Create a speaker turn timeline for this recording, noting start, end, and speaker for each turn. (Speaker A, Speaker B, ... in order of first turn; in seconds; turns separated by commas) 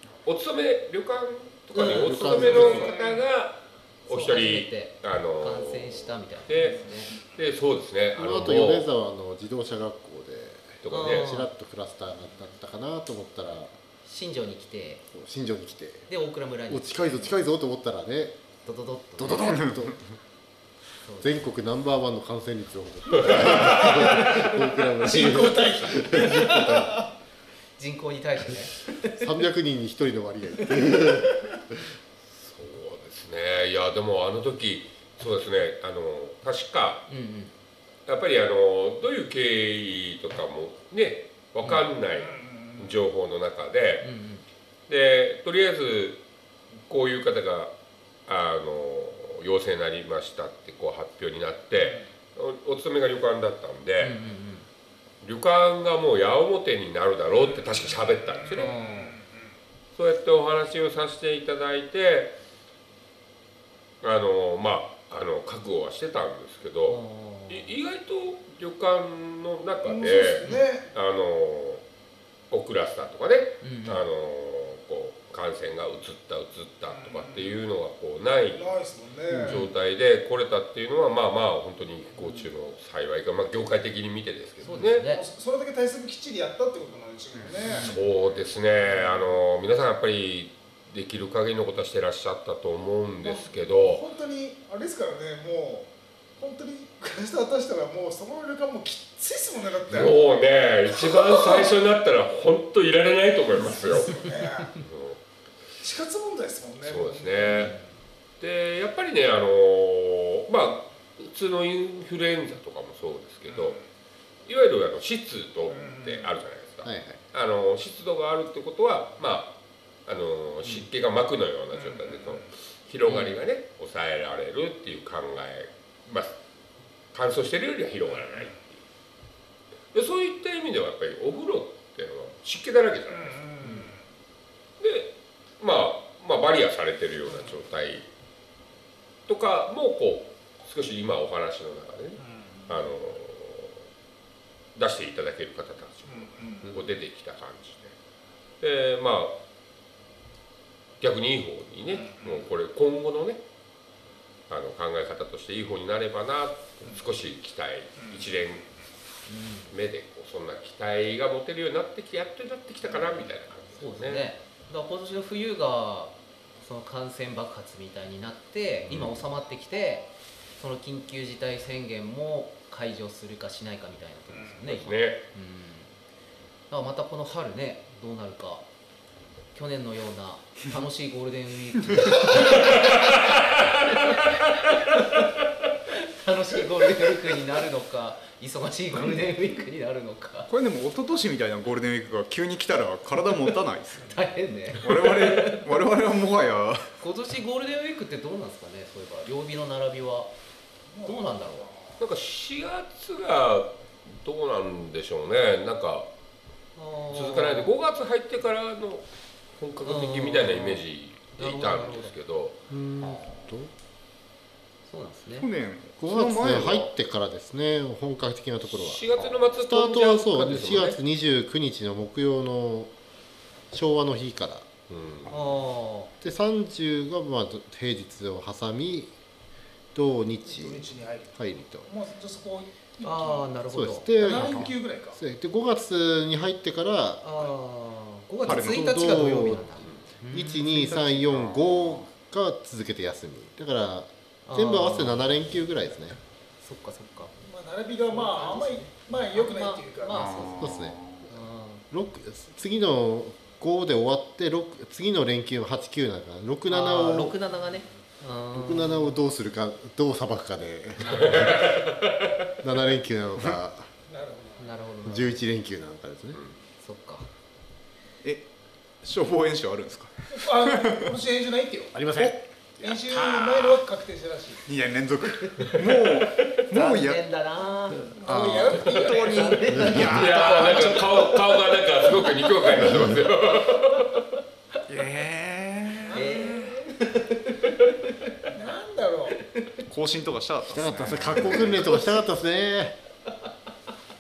Speaker A: 0.2-8.9, Speaker B: 1.7-2.5, Speaker C: 1.8-2.9, Speaker D: 2.4-3.2, Speaker B: 4.1-7.2, Speaker C: 8.2-13.7, Speaker A: 10.8-11.3, Speaker B: 10.9-11.5, Speaker B: 14.1-15.1, Speaker C: 15.1-16.1, Speaker B: 16.1-17.3, Speaker C: 16.7-18.4, Speaker B: 18.6-19.7, Speaker C: 19.2-20.0, Speaker B: 21.1-21.5, Speaker C: 21.2-27.0, Speaker A: 23.2-24.0, Speaker D: 23.4-26.9, Speaker B: 27.8-29.2, Speaker C: 29.2-31.8, Speaker A: 32.4-37.1, Speaker B: 37.1-37.5, Speaker A: 38.1-44.1, Speaker D: 42.1-43.0, Speaker B: 44.0-44.4, Speaker A: 44.9-46.2, Speaker A: 46.9-47.7, Speaker A: 48.3-54.1, Speaker D: 51.8-52.0, Speaker B: 54.0-54.7, Speaker A: 55.2-58.7, Speaker D: 58.4-59.4, Speaker B: 58.6-59.1, Speaker A: 60.0-62.3, Speaker A: 64.0-71.8, Speaker B: 66.9-67.7, Speaker D: 69.8-70.9, Speaker A: 72.5-78.7, Speaker B: 73.6-74.0, Speaker D: 76.9-77.5, Speaker D: 78.5-79.6, Speaker B: 79.3-79.7, Speaker A: 79.4-85.1, Speaker B: 84.6-85.2, Speaker D: 84.6-87.9, Speaker B: 87.6-88.0, Speaker A: 87.8-94.0, Speaker D: 93.2-100.2, Speaker A: 99.9-105.2, Speaker D: 100.9-101.7, Speaker D: 103.6-104.8, Speaker D: 105.8-107.8, Speaker A: 106.8-107.8, Speaker A: 108.4-113.8, Speaker D: 113.5-113.8, Speaker A: 114.5-119.5, Speaker D: 115.7-116.3, Speaker C: 116.8-117.2, Speaker A: 120.1-126.3, Speaker D: 121.7-122.4, Speaker B: 123.0-123.4, Speaker A: 127.1-128.8, Speaker D: 128.1-128.5, Speaker A: 129.9-133.4, Speaker D: 133.1-134.0, Speaker B: 133.6-133.9, Speaker A: 134.8-138.1, Speaker D: 137.3-137.5, Speaker A: 139.3-143.8, Speaker D: 142.2-142.8, Speaker A: 144.8-147.9, Speaker D: 146.1-146.8, Speaker A: 148.6-149.4, Speaker A: 151.0-153.4, Speaker D: 152.0-152.4, Speaker A: 154.5-158.7, Speaker D: 158.0-158.3, Speaker B: 159.3-159.7, Speaker A: 159.7-164.3, Speaker B: 163.8-170.1, Speaker A: 168.9-169.2, Speaker B: 170.6-175.9, Speaker D: 174.3-174.6, Speaker A: 174.7-175.2, Speaker B: 176.7-178.7, Speaker B: 179.5-185.3, Speaker A: 182.4-184.1, Speaker B: 185.9-190.5, Speaker E: 190.5-194.2, Speaker B: 194.0-195.7, Speaker E: 194.8-196.9, Speaker B: 197.0-200.3, Speaker D: 200.9-202.0, Speaker B: 201.0-201.7, Speaker A: 202.0-206.1, Speaker B: 206.8-207.7, Speaker A: 207.1-212.6, Speaker B: 209.8-210.8, Speaker B: 211.4-212.1, Speaker C: 212.7-213.7, Speaker E: 213.0-213.4, Speaker B: 214.9-215.5, Speaker E: 215.4-216.9, Speaker C: 216.0-222.9, Speaker A: 218.7-221.0, Speaker C: 223.7-224.7, Speaker A: 224.9-225.3, Speaker B: 225.3-226.1, Speaker C: 226.2-229.1, Speaker C: 229.9-231.9, Speaker D: 230.5-233.5, Speaker B: 233.0-234.7, Speaker C: 233.7-237.2, Speaker D: 234.2-235.2, Speaker B: 237.2-241.2, Speaker E: 238.5-239.1, Speaker C: 238.5-246.2, Speaker E: 241.3-242.0, Speaker B: 244.5-245.3, Speaker B: 246.6-247.3, Speaker D: 247.4-250.5, Speaker B: 248.1-251.8, Speaker E: 250.1-251.3, Speaker C: 250.6-251.3, Speaker C: 251.9-257.4, Speaker B: 256.7-259.2, Speaker C: 258.5-261.9, Speaker B: 261.0-261.6, Speaker A: 261.1-262.4, Speaker C: 262.6-263.9, Speaker D: 264.1-264.7, Speaker B: 264.6-265.4, Speaker C: 265.1-266.4, Speaker B: 266.8-267.3, Speaker E: 269.0-271.1, Speaker D: 270.3-272.0, Speaker C: 271.9-272.4, Speaker E: 272.2-273.8, Speaker D: 272.8-274.6, Speaker E: 274.7-277.2, Speaker B: 276.7-278.2, Speaker D: 278.1-279.8, Speaker E: 278.2-281.1, Speaker B: 278.7-283.1, Speaker A: 279.9-284.2, Speaker E: 284.9-286.4, Speaker D: 286.0-286.8, Speaker B: 286.1-288.5, Speaker D: 288.5-289.4, Speaker B: 289.4-289.8, Speaker E: 289.9-292.0, Speaker C: 290.7-292.9, Speaker B: 291.5-292.1